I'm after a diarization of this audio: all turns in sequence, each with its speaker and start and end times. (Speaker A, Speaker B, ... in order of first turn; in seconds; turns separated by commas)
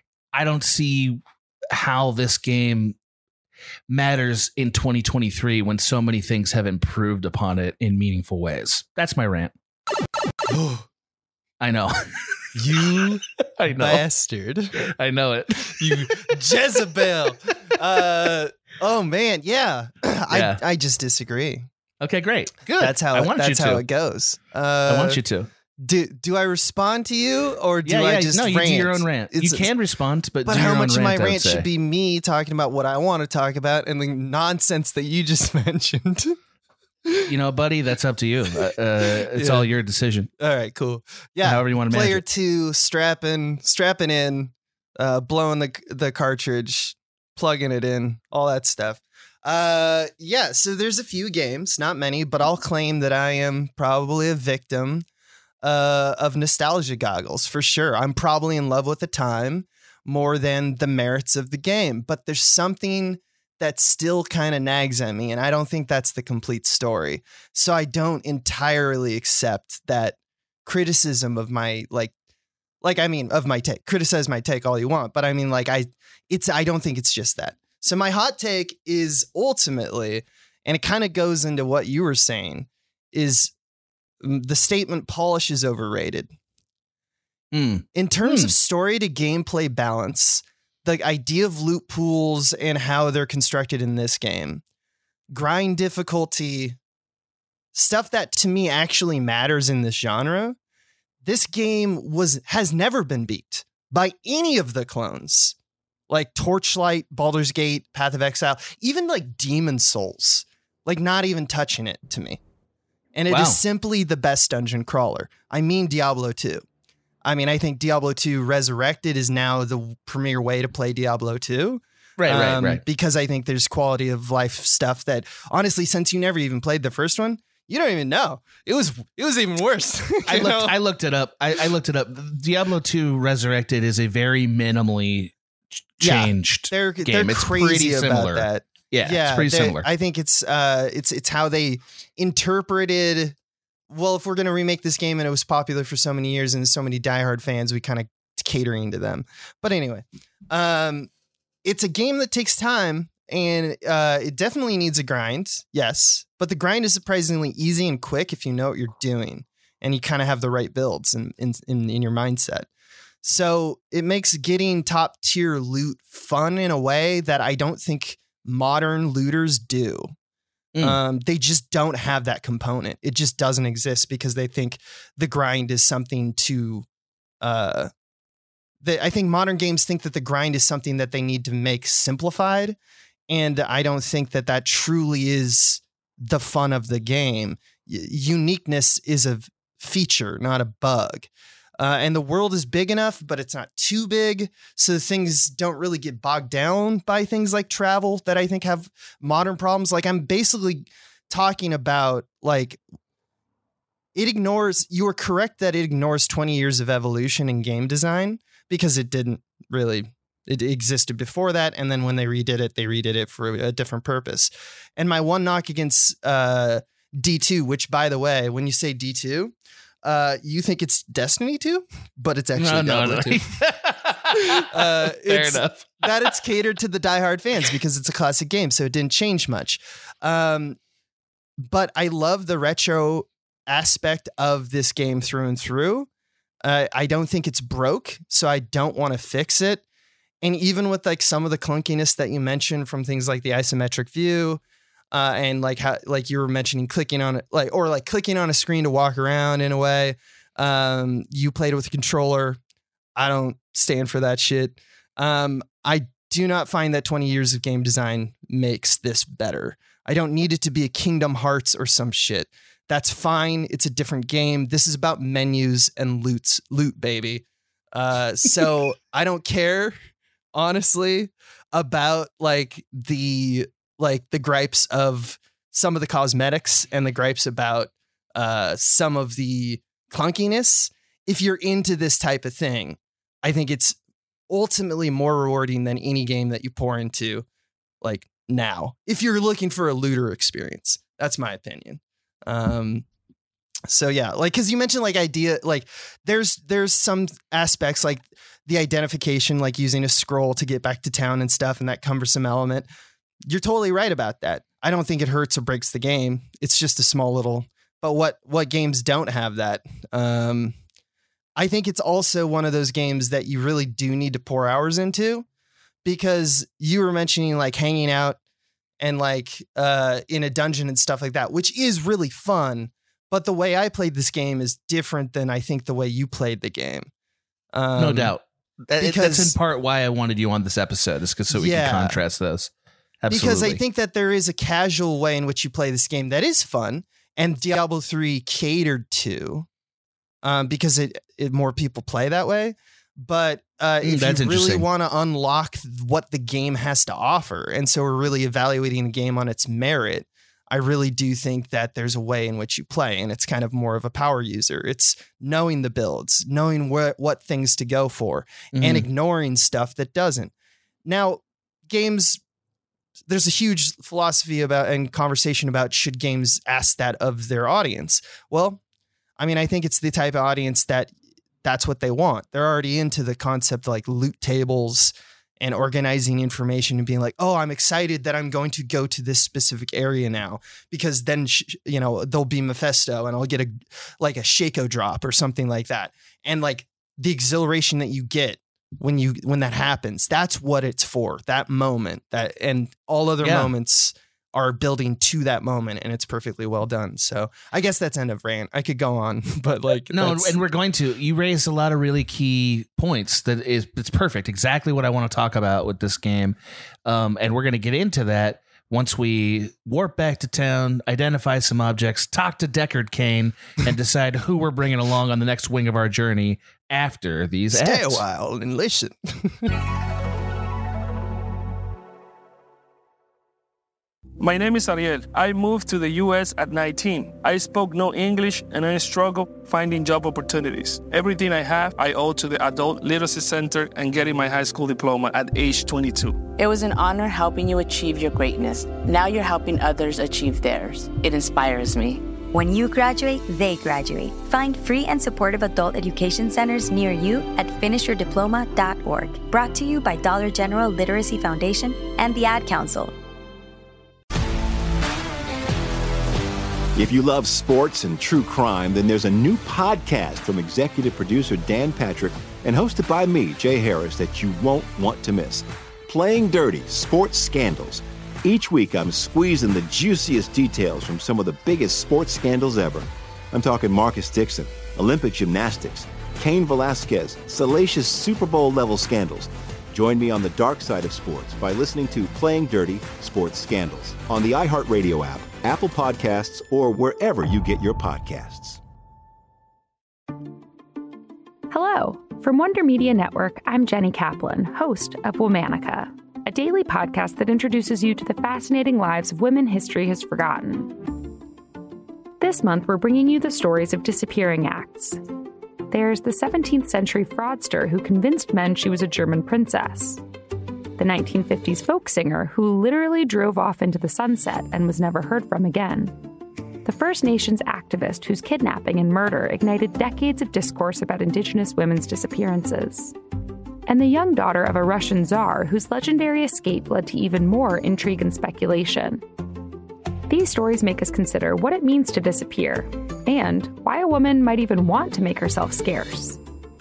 Speaker A: 0.3-1.2, Speaker A: 1.7-3.0, Speaker A: 3.9-9.5, Speaker B: 10.5-10.8, Speaker A: 11.6-11.9, Speaker B: 12.5-13.2, Speaker A: 13.6-14.0, Speaker B: 13.8-14.8, Speaker A: 14.9-16.2, Speaker B: 15.8-21.7, Speaker A: 20.3-20.6, Speaker A: 22.0-23.8, Speaker B: 22.8-25.2, Speaker A: 24.9-25.5, Speaker B: 25.8-29.7, Speaker A: 27.8-31.7, Speaker B: 30.4-36.4, Speaker A: 37.2-40.3, Speaker B: 39.1-39.7, Speaker B: 40.4-55.0, Speaker A: 41.4-42.2, Speaker B: 55.6-72.1, Speaker B: 72.8-83.5, Speaker B: 84.2-86.3, Speaker A: 87.5-88.5, Speaker B: 87.9-94.6, Speaker B: 95.3-96.8, Speaker B: 97.7-100.6, Speaker B: 101.2-105.5, Speaker B: 106.1-112.4, Speaker B: 113.1-116.6, Speaker A: 113.3-113.6, Speaker B: 117.2-130.8, Speaker A: 122.2-122.8, Speaker A: 130.2-135.3, Speaker A: 136.0-139.9, Speaker B: 136.0-143.3, Speaker B: 143.9-151.1, Speaker B: 151.6-162.7, Speaker B: 163.2-170.1, Speaker B: 170.8-176.8, Speaker B: 177.4-177.9, Speaker B: 178.8-182.8, Speaker B: 183.3-202.8, Speaker B: 204.1-223.4, Speaker A: 222.6-226.1, Speaker B: 224.5-230.8, Speaker B: 231.6-236.1, Speaker B: 236.6-239.8, Speaker B: 240.4-244.6, Speaker B: 245.1-252.6, Speaker B: 253.2-269.9, Speaker B: 270.5-283.9, Speaker B: 284.5-287.4, Speaker B: 288.0-293.0, Speaker B: 293.9-302.9, Speaker B: 303.4-310.8, Speaker B: 311.6-315.4, Speaker B: 316.0-318.4, Speaker B: 319.0-327.1, Speaker B: 327.7-328.3, Speaker A: 328.0-332.7, Speaker B: 328.9-329.5, Speaker B: 331.5-332.2, Speaker A: 333.2-333.8, Speaker B: 333.3-339.7, Speaker B: 340.4-360.5, Speaker A: 344.0-344.9, Speaker A: 358.7-359.1, Speaker B: 361.0-362.4, Speaker B: 363.3-368.8, Speaker B: 369.4-371.1, Speaker B: 371.6-400.6, Speaker A: 393.4-393.7, Speaker A: 400.1-418.2, Speaker B: 417.7-419.7, Speaker C: 424.4-436.4, Speaker D: 436.6-442.2, Speaker E: 442.5-453.1, Speaker F: 456.9-488.8, Speaker G: 491.7-501.1, Speaker G: 502.4-505.2, Speaker G: 505.9-510.2, Speaker G: 511.0-516.1, Speaker G: 516.8-523.1, Speaker G: 523.9-529.2, Speaker G: 530.3-536.4